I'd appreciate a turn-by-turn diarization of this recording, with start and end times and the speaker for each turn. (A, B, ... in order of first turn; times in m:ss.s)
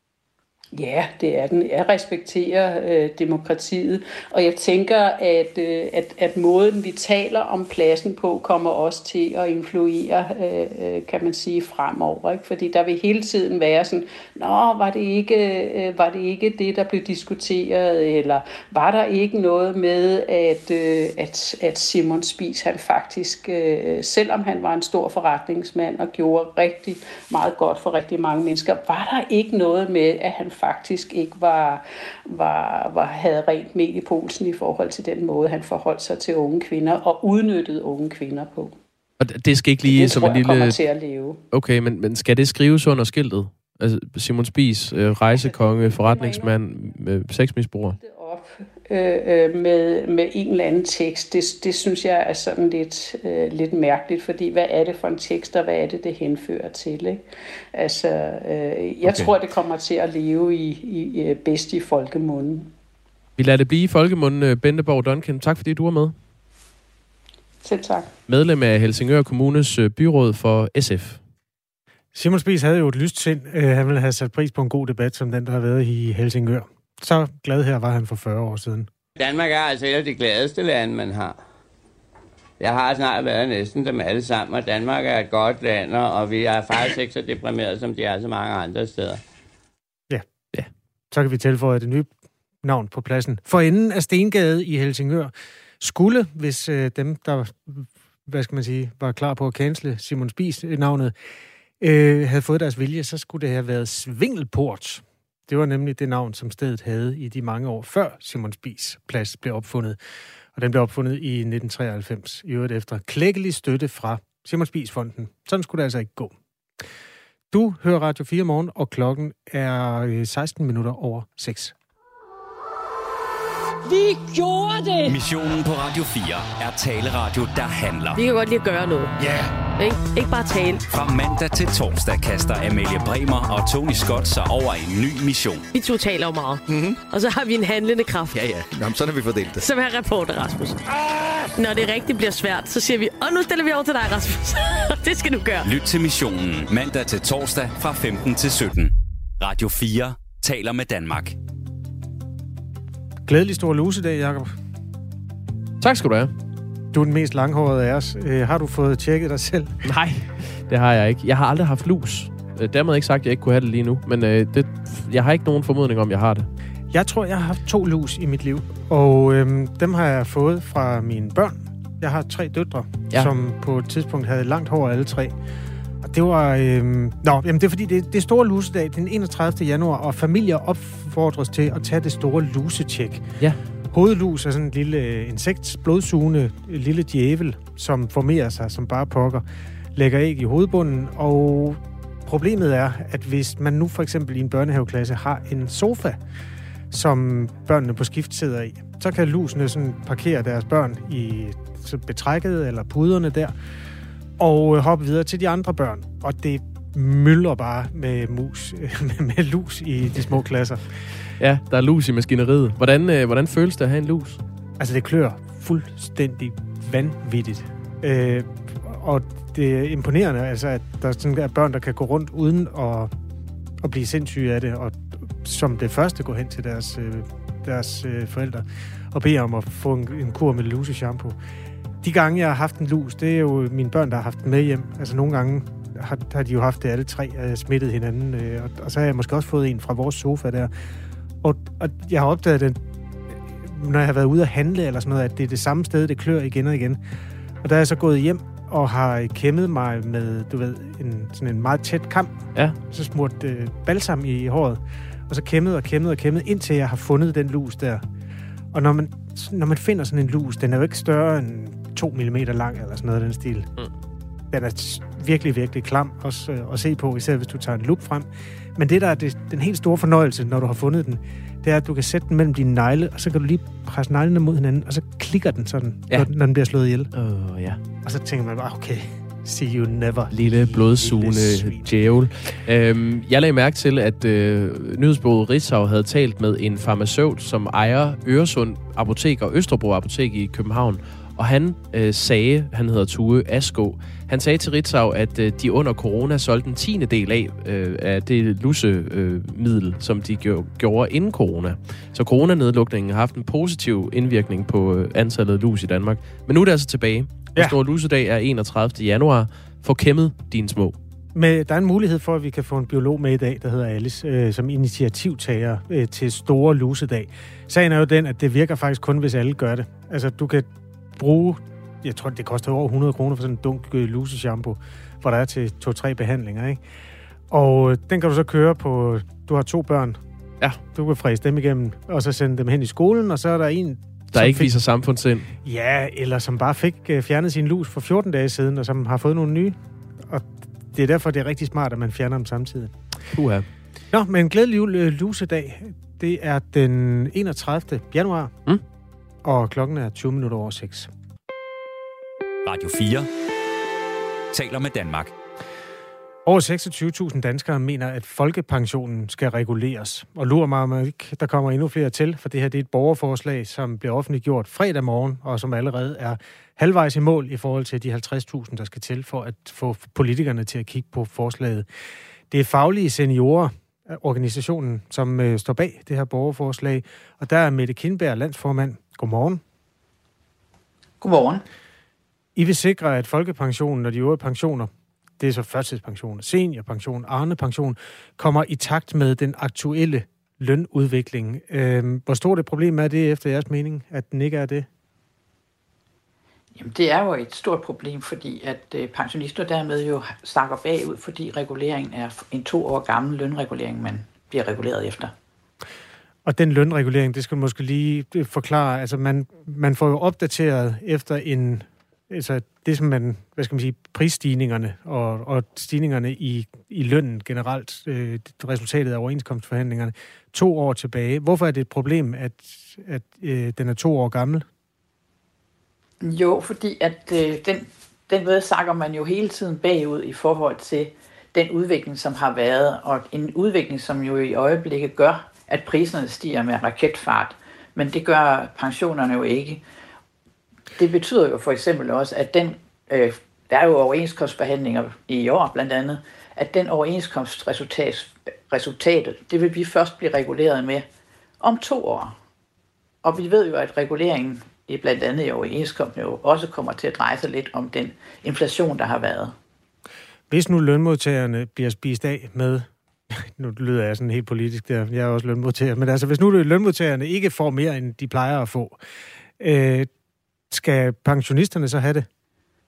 0:00.7-0:38.8 A
0:39.2-0:40.8 B
0:39.8-0:41.4 A
0:41.5-0:48.0 B
0:45.3-0:47.0 A
0:48.0-0:57.2 A
0:57.7-1:02.7 A
0:59.0-0:59.3 B
1:03.4-1:06.1 B
1:07.6-1:08.1 A
1:08.3-1:11.2 B
1:12.1-1:18.9 C
1:19.2-1:21.4 D
1:22.6-1:29.2 D
1:31.1-1:32.1 C
1:32.6-1:41.1 C
1:41.8-1:50.0 C
1:50.5-1:56.3 C
1:57.5-2:01.7 C
2:03.8-2:05.2 E
2:05.0-2:08.2 F
2:08.1-2:09.1 E
2:09.8-2:10.8 E
2:10.9-2:15.7 F
2:15.7-2:18.4 E
2:19.5-2:20.8 E
2:21.5-2:25.7 E
2:25.6-2:31.4 F
2:33.2-2:34.5 C
2:35.8-2:36.3 B
2:36.9-2:39.8 C
2:39.8-2:46.5 B
2:46.9-2:55.3 C
2:56.0-3:03.3 C
3:03.9-3:16.2 C
3:16.9-3:23.5 C
3:24.4-3:30.9 C
3:31.4-3:34.4 B
3:34.8-3:43.1 C
3:43.8-3:51.4 C
3:52.0-4:00.7 C
4:01.4-4:02.8 C
4:03.3-4:07.0 C
4:07.6-4:12.4 C
4:12.9-4:18.0 C
4:18.7-4:23.7 C
4:24.5-4:37.1 C
4:37.1-4:37.8 B
4:38.0-4:41.9 C
4:40.3-5:11.0 B
5:11.3-5:26.8 C
5:27.5-5:30.2 C
5:30.9-5:34.8 C
5:34.3-5:35.5 B
5:35.6-5:43.0 C
5:43.3-5:43.7 B
5:44.1-5:48.5 C
5:49.4-5:51.1 C
5:52.6-5:53.3 F
5:54.5-5:55.3 F
5:56.4-6:11.8 C
6:12.5-6:19.6 C
6:21.2-6:21.6 G
6:22.6-6:34.9 C
6:36.8-6:45.3 G
6:46.4-7:04.6 C
7:06.2-7:19.8 G
7:21.0-7:31.0 G
7:31.6-7:32.4 G
7:33.2-7:39.5 G
7:40.5-7:49.0 C
7:49.6-7:50.1 C
7:50.7-7:52.3 C